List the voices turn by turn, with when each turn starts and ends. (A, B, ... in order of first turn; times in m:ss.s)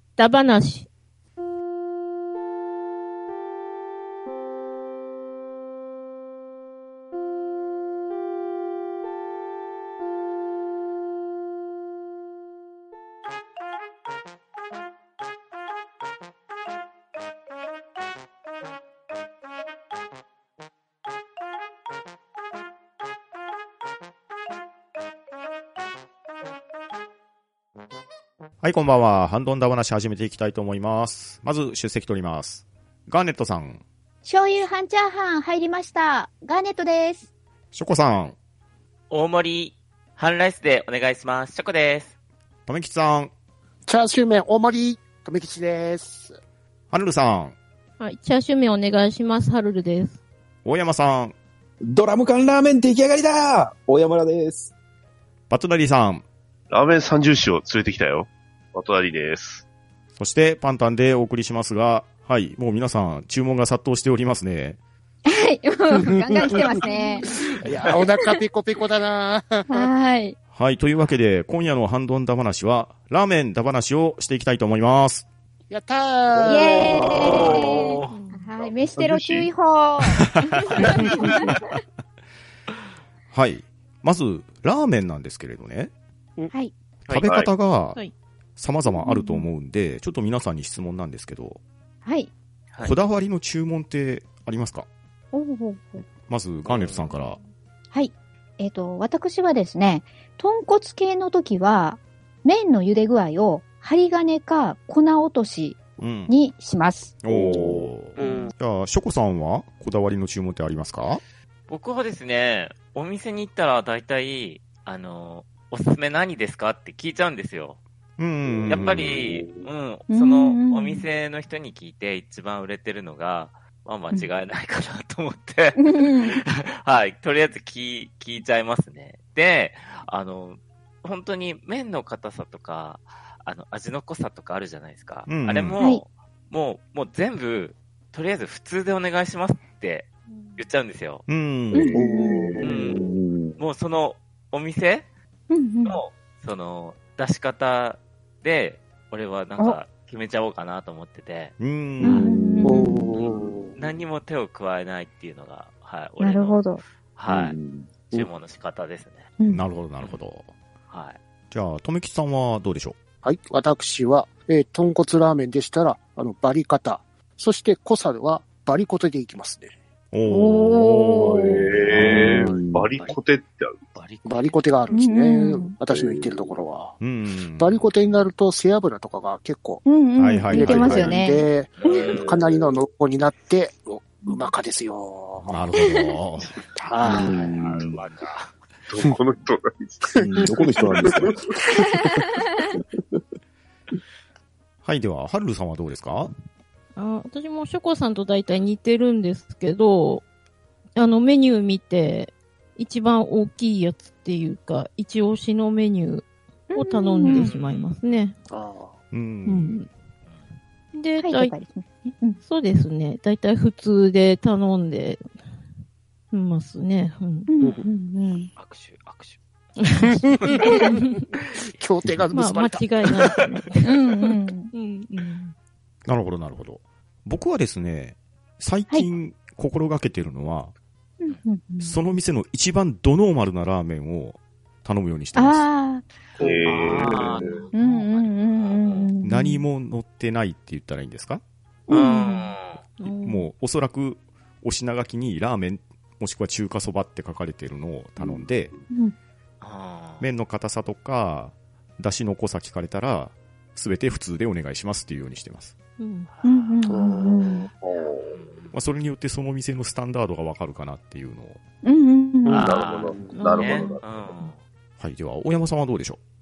0:00.2-0:00.9 A
0:28.6-0:33.8 B
0:34.2-0:37.3 C
0:37.7-0:38.4 B
0:39.1-0:42.1 D
0:42.7-0:43.3 B
0:43.9-0:46.4 E
0:46.9-0:47.6 B
0:48.0-0:50.2 A
0:50.6-0:51.3 B
0:51.8-0:54.7 F
0:55.5-0:56.2 B
0:56.7-0:59.6 G
1:00.2-1:04.8 B
1:05.3-1:07.3 C
1:05.9-1:09.9 E
1:08.0-1:08.3 C
1:09.7-1:10.4 C
1:10.5-1:15.2 B
1:15.7-1:17.4 E
1:16.4-1:18.0 G
1:16.4-1:21.3 C
1:17.0-1:18.1 D
1:18.1-1:18.5 A
1:18.6-1:19.5 G
1:20.0-1:21.0 B
1:23.3-1:25.9 B
1:27.1-1:28.0 B
1:27.2-1:27.5 G
1:28.6-1:31.6 B
1:28.9-1:29.5 C
1:32.0-1:32.3 C
1:32.8-1:34.9 B
1:35.3-1:36.0 C
1:36.0-1:37.4 B
1:36.6-1:37.1 D
1:37.9-1:47.1 C
1:46.0-1:46.3 B
1:47.2-1:51.2 B
1:47.3-1:47.9 F
1:48.2-1:48.5 D
1:51.7-1:57.8 D
1:58.2-1:59.2 B
1:58.5-1:59.7 G
1:58.7-2:21.2 D
2:00.1-2:01.0 C
2:05.8-2:06.4 C
2:15.3-2:15.8 B
2:21.3-2:22.0 B
2:21.7-2:22.5 C
2:21.9-2:22.8 E
2:22.0-2:22.6 G
2:22.6-2:23.6 F
2:22.6-2:25.1 D
2:25.5-2:26.0 C
2:25.8-2:32.3 D
2:31.6-2:32.3 B
2:32.0-2:33.1 C
2:32.3-2:33.8 E
2:32.4-2:32.7 F
2:33.1-2:37.6 D
2:36.2-2:36.8 C
2:37.3-2:37.9 F
2:38.1-2:39.3 D
2:39.5-2:40.5 B
2:40.9-2:41.2 D
2:41.5-2:43.0 B
2:43.2-2:49.7 E
2:50.1-2:52.5 B
2:50.3-2:51.4 C
2:51.2-2:53.8 G
2:52.0-2:52.9 F
2:52.0-2:53.2 D
2:53.9-2:54.6 D
2:54.2-2:57.0 E
2:54.9-2:55.7 C
2:55.9-2:56.6 G
2:57.0-2:57.8 B
2:57.6-2:59.8 E
2:59.8-3:01.5 C
3:00.2-3:01.2 B
3:00.5-3:05.5 E
3:01.8-3:02.4 D
3:01.8-3:02.7 G
3:05.4-3:06.6 B
3:05.8-3:06.1 C
3:06.7-3:07.6 E
3:07.0-3:08.0 F
3:07.1-3:08.5 D
3:08.9-3:11.3 G
3:10.0-3:10.6 E
3:10.3-3:13.2 F
3:14.8-3:16.3 B
3:17.0-3:20.2 A
3:21.0-3:28.4 A
3:26.7-3:27.5 C
3:27.3-3:27.9 D
3:28.5-3:28.9 E
3:29.1-3:29.8 B
3:29.4-3:29.9 A
3:30.9-3:31.5 A
3:31.2-3:32.4 C
3:32.4-3:35.3 A
3:36.3-3:37.5 A
3:37.5-3:38.5 C
3:37.6-3:37.9 D
3:38.6-3:39.4 D
3:39.8-3:40.0 A
3:40.0-3:40.9 E
3:40.3-3:41.7 D
3:40.8-3:41.2 A
3:41.7-3:43.3 E
3:42.3-3:45.5 A
3:43.8-3:44.7 C
3:46.0-3:50.7 B
3:51.2-3:52.0 C
3:51.8-3:55.7 B
3:55.4-3:56.0 C
3:56.4-3:57.6 E
3:56.4-3:57.6 G
3:56.9-3:59.1 D
3:57.7-3:59.6 C
3:59.2-4:01.4 B
4:01.9-4:02.5 C
4:01.9-4:02.8 D
4:03.0-4:03.5 A
4:03.2-4:08.7 B
4:09.6-4:10.3 D
4:10.2-4:15.7 B
4:16.0-4:16.3 A
4:16.3-4:17.0 D
4:16.4-4:17.7 C
4:16.9-4:17.7 E
4:17.8-4:18.4 G
4:17.8-4:18.8 D
4:18.7-4:21.6 B
4:21.8-4:22.7 C
4:22.4-4:23.6 E
4:22.5-4:24.6 D
4:22.6-4:24.0 G
4:23.3-4:24.0 A
4:25.0-4:26.2 B